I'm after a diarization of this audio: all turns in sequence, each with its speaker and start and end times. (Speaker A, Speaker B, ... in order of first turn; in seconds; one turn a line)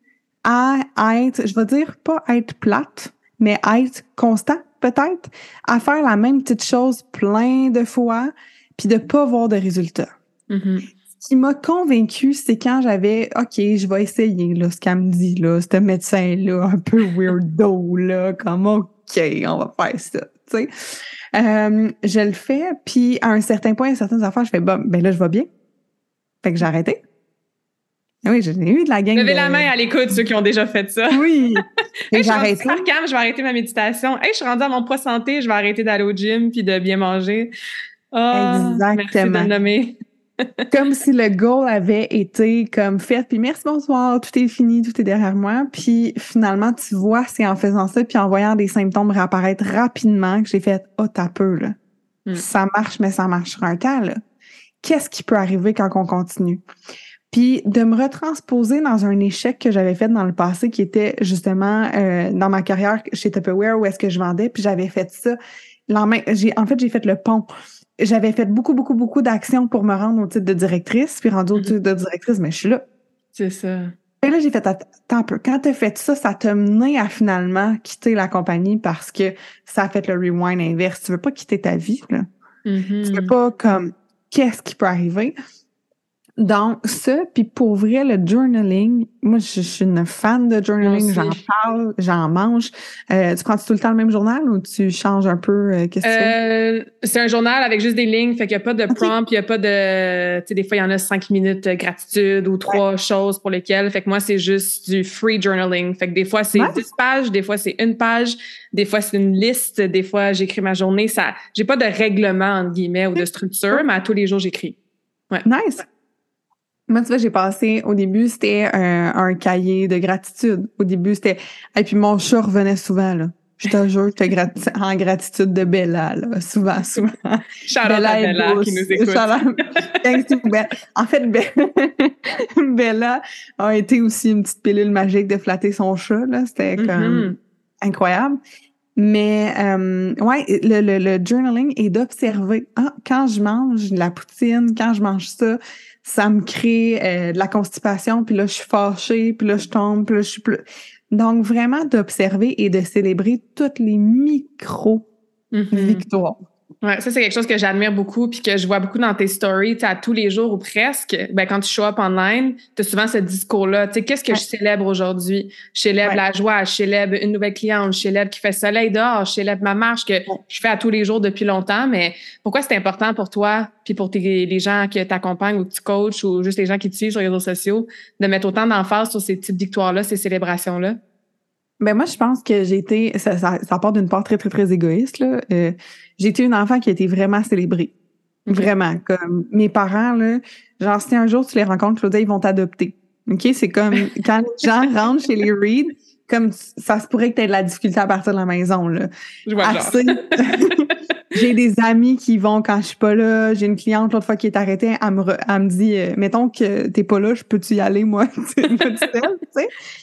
Speaker A: 0.4-10.1
Speaker B: 10.5-10.9
Speaker A: 11.2-20.7
Speaker A: 21.3-25.5
Speaker A: 26.4-27.0
Speaker A: 28.2-29.7
Speaker B: 29.1-31.2
Speaker A: 31.1-32.8
Speaker B: 32.1-37.5
Speaker B: 38.1-40.6
Speaker A: 38.3-39.5
Speaker A: 40.7-51.8
Speaker A: 52.4-54.2
Speaker A: 54.8-56.6
Speaker A: 57.3-65.4
Speaker A: 65.9-72.8
Speaker B: 73.3-73.9
Speaker A: 74.2-82.3
Speaker B: 82.7-83.3
Speaker A: 83.0-85.3
Speaker A: 86.4-96.3
Speaker B: 90.8-91.4
Speaker B: 96.0-114.8
Speaker A: 106.6-106.8
Speaker A: 113.2-113.8
Speaker A: 115.4-115.8
Speaker A: 116.9-138.4
Speaker B: 127.7-130.2
Speaker B: 136.8-137.4
Speaker A: 139.0-155.1
Speaker B: 155.5-156.1
Speaker A: 155.7-156.4
Speaker B: 156.8-181.0
Speaker A: 181.8-187.9
Speaker B: 188.5-188.7
Speaker A: 188.5-199.1
Speaker B: 199.5-201.2
Speaker A: 199.6-209.7
Speaker B: 208.7-209.1